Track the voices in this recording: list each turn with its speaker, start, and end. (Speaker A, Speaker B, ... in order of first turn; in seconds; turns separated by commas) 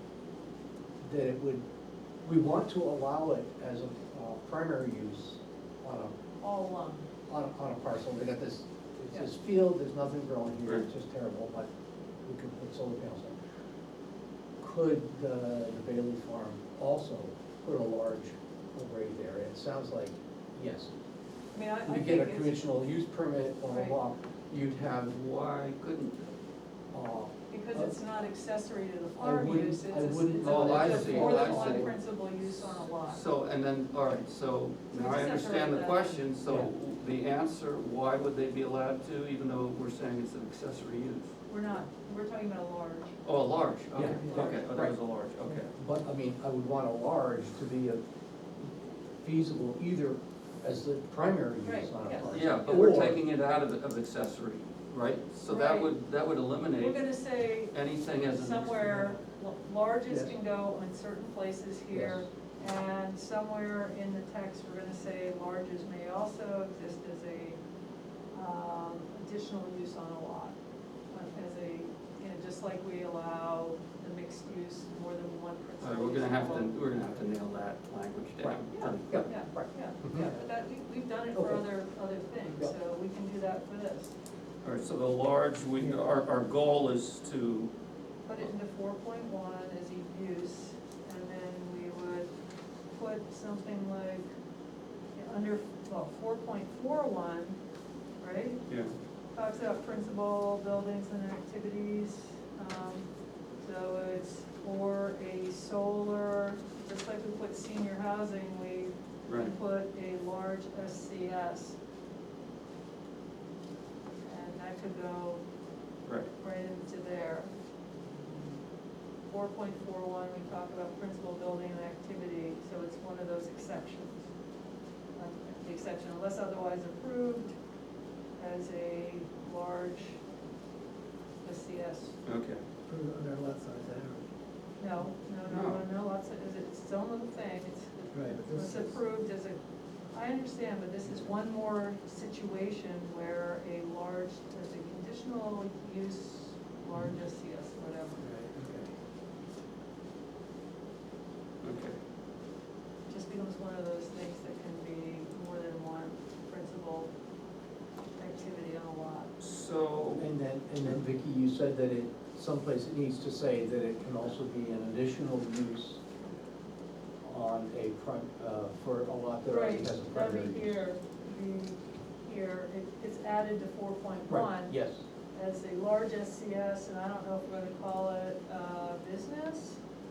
Speaker A: 1.1-1.6, Speaker A: 2.2-6.1, Speaker B: 6.4-7.1, Speaker A: 7.3-11.7, Speaker A: 12.2-13.3, Speaker A: 14.6-20.9, Speaker B: 21.5-22.7, Speaker A: 21.9-25.2, Speaker B: 23.7-24.0, Speaker C: 25.1-26.3, Speaker A: 26.9-27.9, Speaker B: 27.5-33.2, Speaker A: 29.2-31.9, Speaker C: 30.4-31.9, Speaker C: 33.0-41.3, Speaker B: 34.9-36.2, Speaker B: 41.5-43.1, Speaker C: 43.2-45.7, Speaker A: 43.9-48.0, Speaker B: 44.0-44.5, Speaker A: 48.6-53.2, Speaker B: 51.6-52.4, Speaker C: 52.3-57.0, Speaker B: 55.5-55.9, Speaker B: 56.8-67.6, Speaker C: 57.7-59.1, Speaker A: 60.1-60.3, Speaker A: 61.9-62.2, Speaker B: 68.3-70.6, Speaker B: 71.1-76.8, Speaker C: 75.8-79.3, Speaker A: 78.4-80.3, Speaker B: 78.7-84.1, Speaker A: 81.3-81.6, Speaker C: 84.6-87.7, Speaker B: 88.3-92.3, Speaker B: 92.9-94.3, Speaker B: 95.2-97.6, Speaker B: 98.2-98.6, Speaker C: 98.7-98.9, Speaker B: 99.3-103.1, Speaker B: 103.6-111.8, Speaker C: 109.3-109.5, Speaker B: 114.2-115.4, Speaker B: 116.4-117.5, Speaker B: 119.3-124.3, Speaker B: 125.2-127.5, Speaker B: 128.4-130.2, Speaker B: 131.4-132.2, Speaker C: 132.3-132.6, Speaker D: 132.9-134.2, Speaker B: 134.8-139.6, Speaker C: 135.5-135.8, Speaker D: 138.1-138.8, Speaker B: 140.1-148.2, Speaker D: 148.3-148.8, Speaker C: 151.6-152.0, Speaker B: 153.1-157.1, Speaker B: 158.2-159.3, Speaker C: 159.4-160.3, Speaker A: 160.2-166.0, Speaker A: 167.2-170.8, Speaker B: 169.5-174.8, Speaker A: 174.3-175.0, Speaker B: 175.3-179.8